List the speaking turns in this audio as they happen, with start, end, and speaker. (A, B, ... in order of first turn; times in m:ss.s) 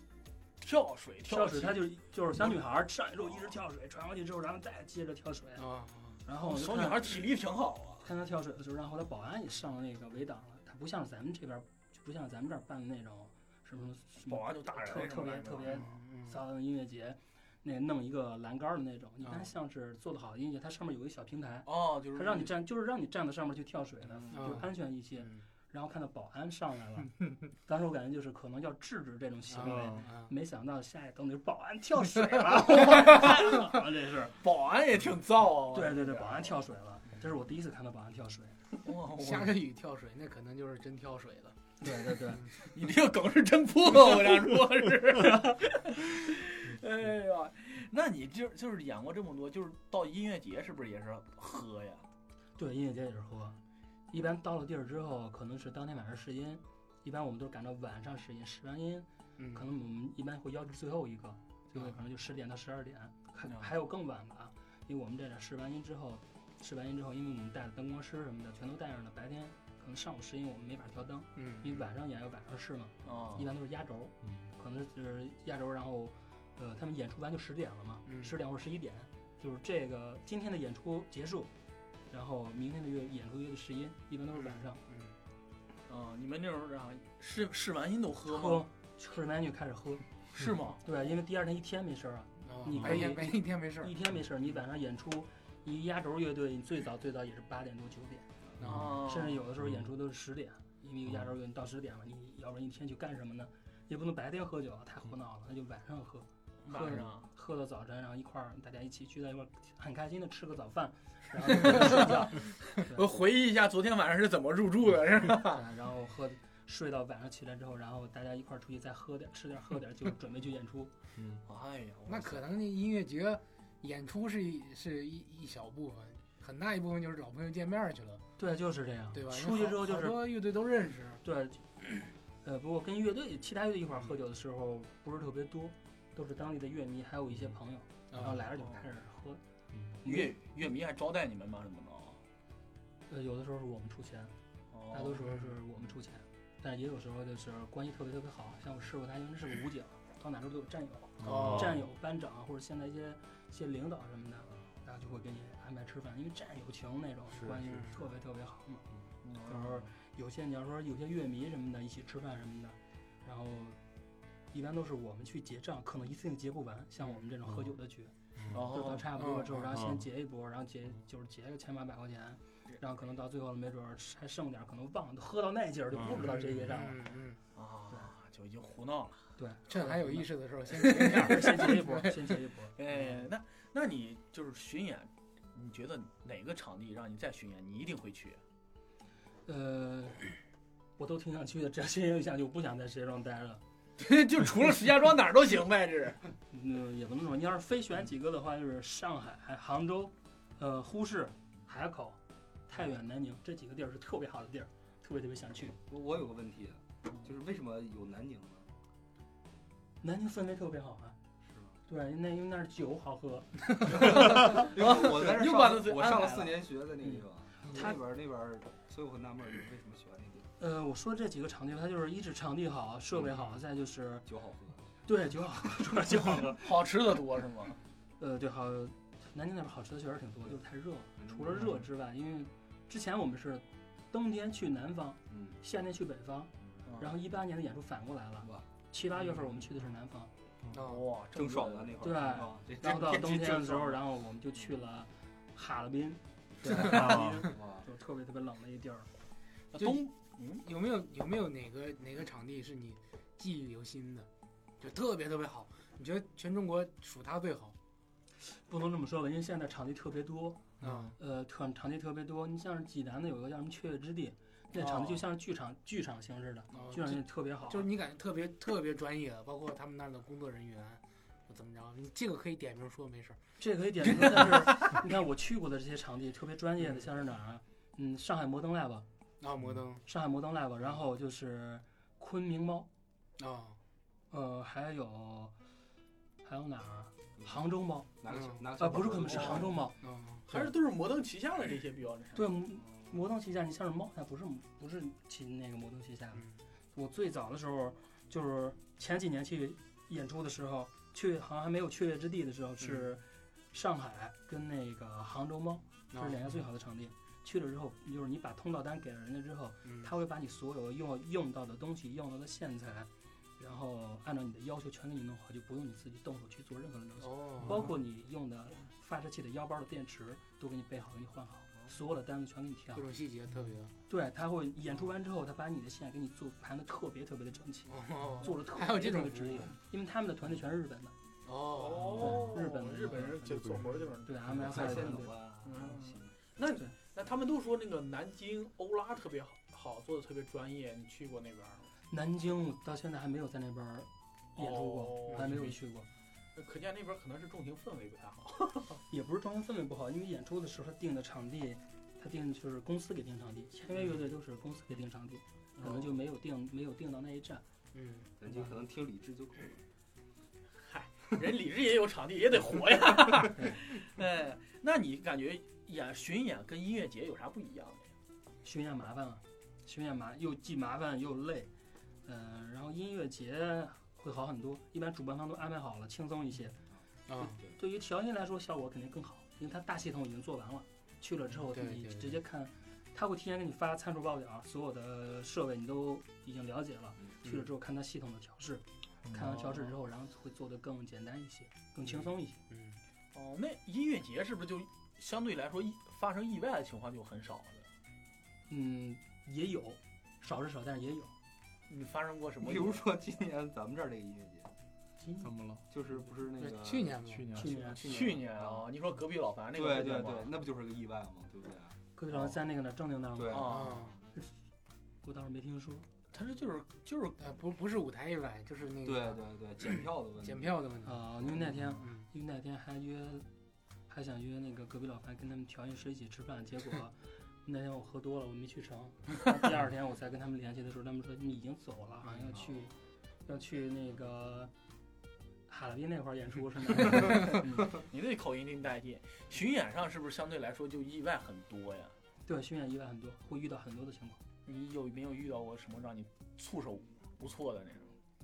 0:00.6-0:01.8 A
0:01.2-0:05.7 B
0:05.6-0:06.2 C
0:06.2-0:07.2 B
0:06.4-0:08.0 A
0:08.0-0:34.4 B
0:14.3-0:15.8 A
0:15.7-0:16.4 C
0:19.2-0:19.5 C
0:21.6-0:22.5 A
0:24.3-0:25.4 C
0:29.5-0:30.3 C
0:34.4-0:36.6 A
0:35.7-0:38.6 B
0:38.8-0:39.6 A
0:39.1-0:41.6 C
0:41.8-0:42.4 B
0:42.1-0:42.5 C
0:42.6-0:52.0 A
0:52.6-0:53.6 B
0:54.1-1:21.5 B
0:59.4-0:59.7 C
1:11.4-1:11.8 C
1:13.0-1:13.5 A
1:18.0-1:18.4 C
1:22.1-1:24.8 B
1:24.3-1:25.2 C
1:25.9-1:28.7 A
1:28.2-1:30.0 B
1:30.3-1:30.8 A
1:30.8-1:53.0 B
1:32.4-1:33.9 C
1:38.6-1:39.0 C
1:38.6-1:39.4 A
1:38.6-1:38.9 D
1:46.6-1:47.3 A
1:52.8-1:55.6 A
1:55.4-2:00.9 B
2:01.4-2:02.4 A
2:02.0-2:08.2 C
2:08.4-2:10.3 B
2:09.1-2:11.2 C
2:11.2-2:19.4 B
2:18.1-2:18.4 C
2:20.0-2:20.3 B
2:20.0-2:22.2 A
2:23.1-2:24.3 B
2:24.7-2:25.3 A
2:24.9-2:38.8 B
2:31.2-2:31.7 D
2:31.2-2:31.8 C
2:37.6-2:38.0 C
2:39.2-2:39.9 A
2:39.4-2:43.8 B
2:44.5-2:57.0 B
2:48.4-2:48.6 D
2:48.5-2:49.1 A
2:49.1-2:49.8 C
2:56.2-2:57.4 C
2:57.5-2:59.3 A
2:59.4-3:00.3 B
2:59.7-3:02.3 C
3:00.9-3:02.8 B
3:00.9-3:01.2 A
3:02.8-3:08.4 A
3:09.4-3:10.4 B
3:11.0-3:13.6 B
3:14.0-3:16.2 A
3:16.5-3:25.8 B
3:25.9-3:28.7 E
3:30.0-3:31.2 B
3:31.5-3:31.8 E
3:31.9-3:34.2 B
3:33.9-3:40.5 E
3:34.0-3:36.6 A
3:40.6-3:44.2 B
3:44.2-3:44.9 E
3:45.0-3:46.8 B
3:46.6-3:47.8 A
3:48.2-4:00.3 B
3:51.2-3:51.6 E
3:55.3-3:55.6 E
3:56.8-3:57.1 A
4:00.7-4:01.1 C
4:00.8-4:02.2 A
4:01.3-4:04.0 E
4:02.0-4:09.1 B
4:06.8-4:07.5 D
4:07.5-4:07.8 E
4:09.7-4:10.6 A
4:09.8-4:10.0 C
4:10.6-4:14.3 C
4:14.8-4:17.7 C
4:18.4-4:27.9 B
4:20.8-4:21.2 C
4:24.8-4:25.2 C
4:26.7-4:33.4 C
4:33.6-4:39.0 B
4:39.4-4:40.0 C
4:40.0-4:42.9 B
4:43.4-4:43.8 C
4:44.3-4:45.5 B
4:46.4-4:48.1 B
4:47.4-4:47.6 E
4:48.2-4:49.7 E
4:48.3-4:48.6 C
4:48.8-4:50.0 B
4:49.3-4:50.5 C
4:50.5-4:52.4 A
4:52.3-5:23.1 B
4:56.3-4:56.6 C
5:02.8-5:03.1 C
5:06.1-5:06.5 C
5:09.8-5:10.1 C
5:17.2-5:18.0 C
5:22.9-5:23.9 C
5:24.1-5:31.1 B
5:27.9-5:29.7 C
5:31.4-5:32.5 C
5:31.7-5:35.1 A
5:32.1-5:33.5 B
5:33.4-5:34.1 D
5:34.2-5:35.4 B
5:34.4-5:36.3 E
5:35.6-5:41.9 A
5:42.1-5:46.1 B
5:44.6-5:45.6 A
5:46.5-5:49.0 A
5:49.1-5:57.6 B
5:57.9-5:58.3 C
5:58.4-5:59.8 E
6:00.8-6:08.1 A
6:03.5-6:03.8 B
6:08.6-6:11.7 B
6:12.2-6:16.7 B
6:17.3-6:17.6 C
6:17.4-6:32.6 B
6:21.6-6:22.4 C
6:27.4-6:27.7 C
6:29.6-6:29.9 C
6:32.2-6:33.0 C
6:33.3-6:37.9 A
6:38.7-6:41.3 B
6:41.9-6:43.1 A
6:42.6-6:44.7 E
6:45.2-6:45.5 B
6:45.4-6:45.8 D
6:45.9-6:47.2 E
6:46.6-6:48.4 C
6:47.3-6:47.7 D
6:47.5-6:48.0 B
6:48.0-6:50.5 A
6:48.5-6:48.8 E
6:49.7-6:52.0 E
6:52.2-6:53.7 B
6:53.4-6:53.9 E
6:53.5-6:54.0 A
6:53.6-6:54.2 C
6:55.2-6:56.1 B
6:56.3-6:57.4 A
6:57.4-6:59.4 C
6:59.0-7:00.8 E
7:00.4-7:02.3 C
7:01.0-7:03.4 B
7:04.1-7:12.9 B
7:12.2-7:12.6 C
7:13.4-7:14.7 B
7:15.7-7:18.0 B
7:17.9-7:22.1 A
7:22.4-7:24.4 B
7:24.6-7:28.1 A